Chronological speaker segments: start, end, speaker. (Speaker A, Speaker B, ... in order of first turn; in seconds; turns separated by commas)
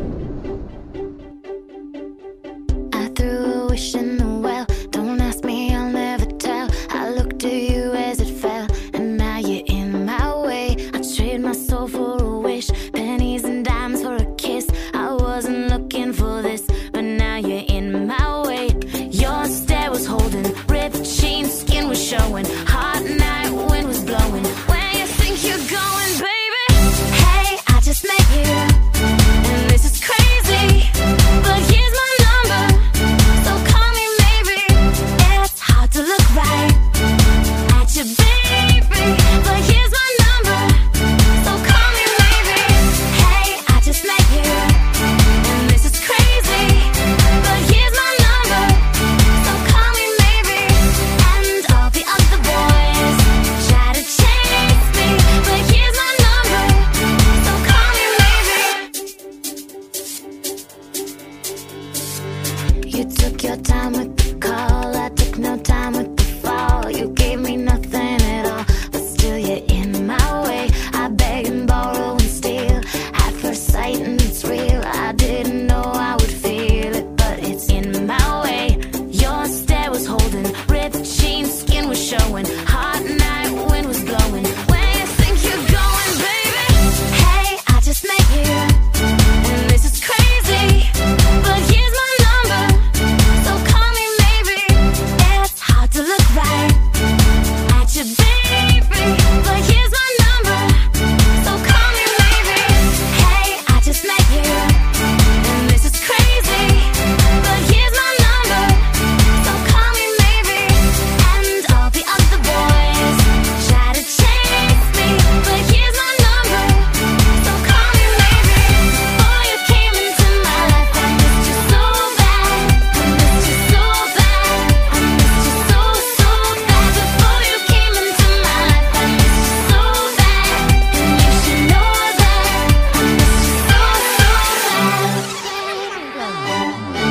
Speaker A: 2.9-37.0, Speaker A: 37.7-58.9, Speaker A: 62.9-97.0, Speaker A: 97.7-135.8